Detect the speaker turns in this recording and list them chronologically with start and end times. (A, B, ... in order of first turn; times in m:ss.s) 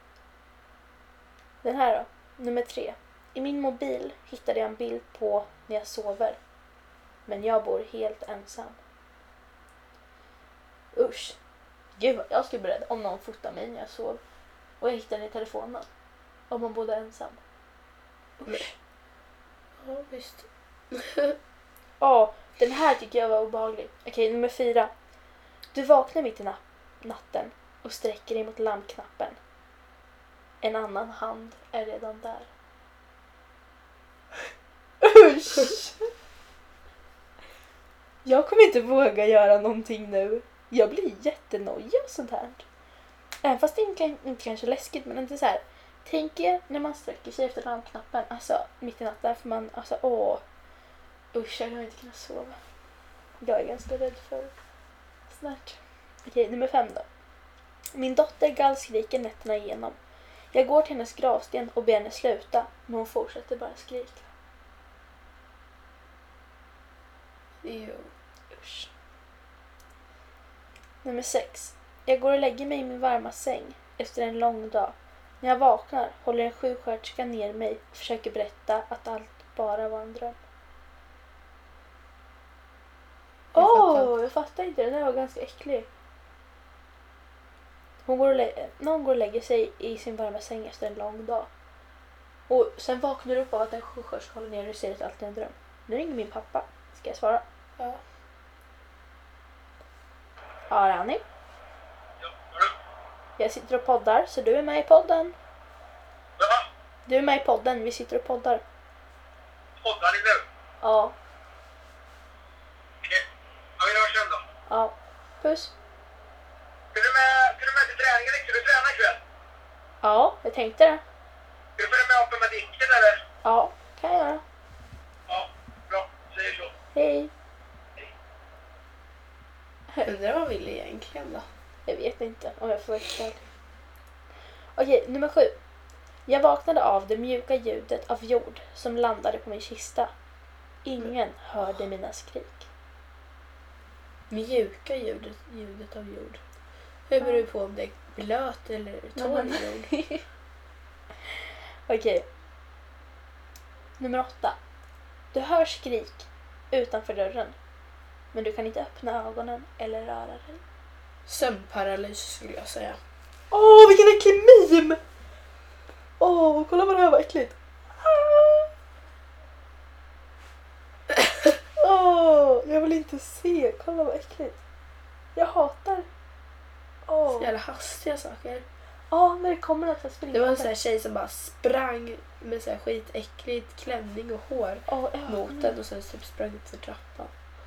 0:01.6-0:06.4 A
0:07.3-0:08.8 A
0:10.9-0:11.4 A
0:12.0-0:14.2 A
0:14.8-0:15.9 A
0:16.5-0:17.4 A
0:18.4-0:18.7 A
0:19.8-0:21.4 B
0:22.0-0:24.9 A
0:25.7-0:29.4 A
0:30.6-0:32.5 A
0:35.0-0:36.1 A
0:38.2-0:42.6 A
0:43.4-0:50.4 A
0:51.3-0:52.6 A
0:53.4-0:54.5 A
0:55.3-0:57.1 A
0:57.9-1:00.0 A
1:00.5-1:04.3 A
1:07.6-1:08.0 B
1:08.5-1:08.9 A
1:11.0-1:20.4 A
1:23.5-1:24.1 B
1:23.5-1:25.9 A
1:28.1-1:31.5 A
1:32.5-1:37.4 A
1:40.7-1:41.2 A
1:42.2-1:42.7 C
1:43.4-1:45.4 A
1:46.4-1:46.6 C
1:47.1-1:48.6 A
1:49.8-1:50.4 C
1:50.8-1:51.2 A
1:53.8-1:54.4 C
1:54.7-1:55.7 A
1:56.9-1:59.2 C
2:00.0-2:01.0 A
2:01.8-2:03.2 C
2:03.4-2:04.4 A
2:05.3-2:06.7 C
2:06.9-2:07.3 A
2:10.0-2:11.5 B
2:11.9-2:13.4 A
2:14.8-2:15.6 A
2:16.3-2:20.1 A
2:20.8-2:22.7 A
2:24.3-2:26.4 B
2:27.1-2:29.9 B
2:29.2-2:30.2 A
2:31.3-2:32.3 A
2:34.0-2:34.6 A
2:35.3-2:37.6 A
2:38.3-2:40.6 A
2:41.3-2:43.0 B
2:43.5-2:45.0 A
2:46.2-2:48.7 A
2:51.8-2:54.6 A
2:55.4-2:56.1 A
2:57.1-2:57.5 A
2:57.3-2:58.6 B
2:59.1-3:00.7 A
3:00.3-3:07.3 B
3:04.9-3:05.7 A